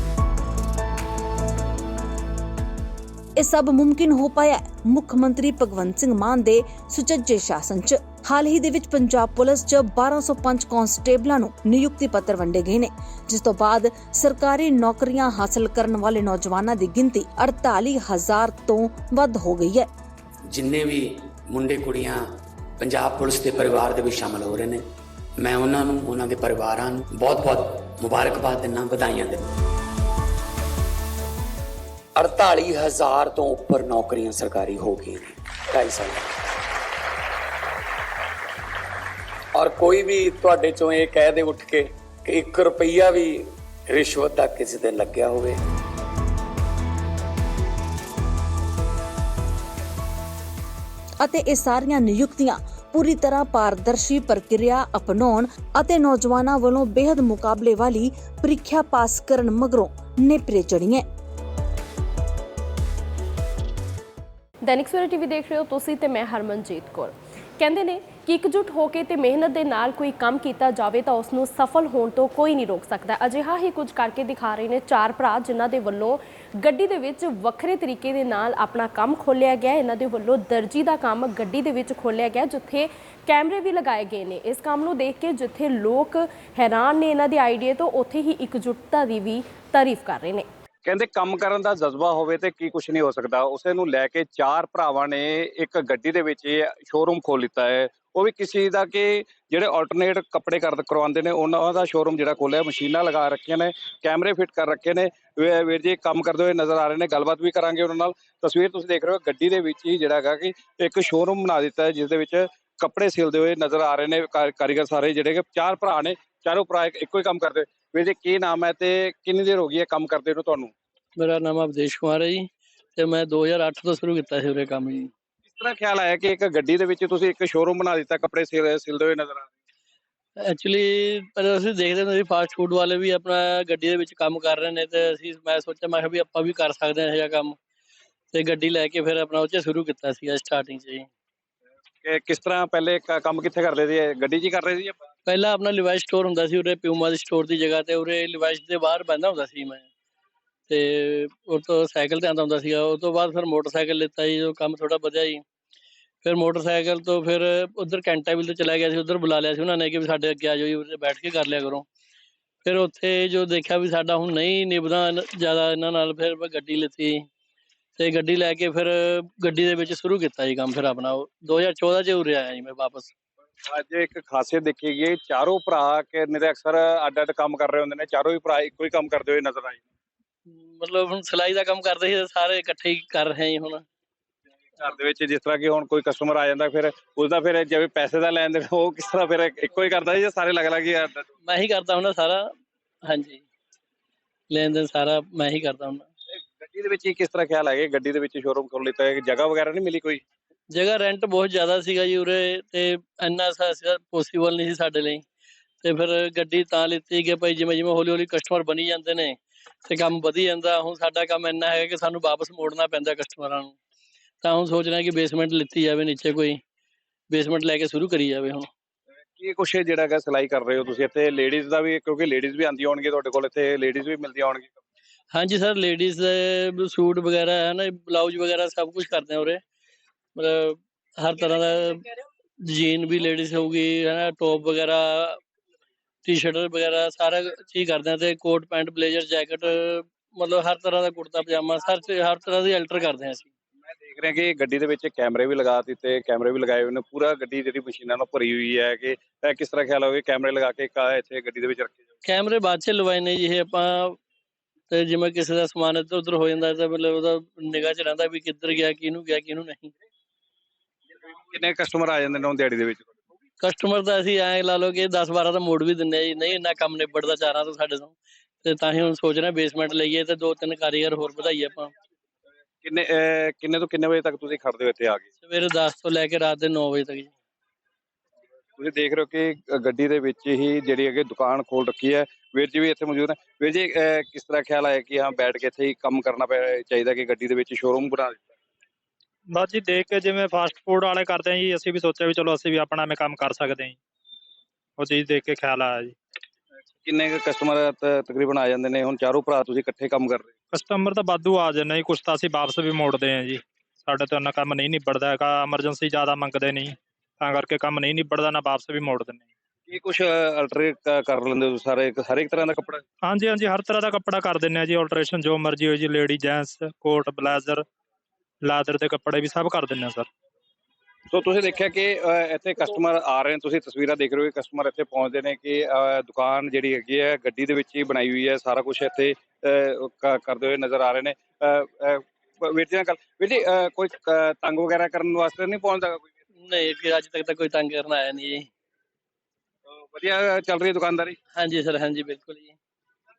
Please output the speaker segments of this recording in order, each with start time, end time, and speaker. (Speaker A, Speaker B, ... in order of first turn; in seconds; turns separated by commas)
Speaker A: 3.4-19.9, Speaker B: 20.5-22.2, Speaker B: 22.8-24.8, Speaker B: 25.4-29.5, Speaker B: 32.2-36.3, Speaker B: 39.5-45.6, Speaker A: 51.2-61.0, Speaker C: 64.6-90.5, Speaker D: 90.8-120.7, Speaker E: 121.2-125.1, Speaker D: 125.5-129.5, Speaker E: 130.4-137.6, Speaker E: 138.3-141.1, Speaker D: 142.0-144.9, Speaker E: 145.2-149.9, Speaker E: 150.7-155.4, Speaker E: 156.2-161.8, Speaker E: 162.6-167.3, Speaker E: 167.9-173.1, Speaker D: 173.7-179.8, Speaker E: 180.5-183.8, Speaker D: 184.8-191.2, Speaker E: 191.4-192.5, Speaker E: 193.1-193.4, Speaker E: 194.5-196.1, Speaker D: 196.4-200.2, Speaker E: 200.7-205.2, Speaker E: 205.8-213.8, Speaker E: 214.4-216.6, Speaker E: 217.3-218.7, Speaker D: 219.3-224.7, Speaker E: 225.3-229.6, Speaker E: 230.3-232.1, Speaker E: 232.6-235.4, Speaker E: 236.2-243.5, Speaker D: 244.0-252.0, Speaker E: 252.2-254.2, Speaker E: 254.9-259.9, Speaker D: 261.5-263.1, Speaker E: 263.6-271.9, Speaker D: 272.8-275.2, Speaker E: 275.4-277.3, Speaker D: 278.8-288.4, Speaker F: 289.5-294.0, Speaker F: 295.0-296.1, Speaker D: 297.0-300.5, Speaker F: 300.7-309.4, Speaker D: 309.9-313.0, Speaker F: 313.2-317.8, Speaker F: 318.6-320.3, Speaker D: 321.3-336.3, Speaker E: 336.6-338.7, Speaker D: 340.0-341.4, Speaker E: 341.5-342.8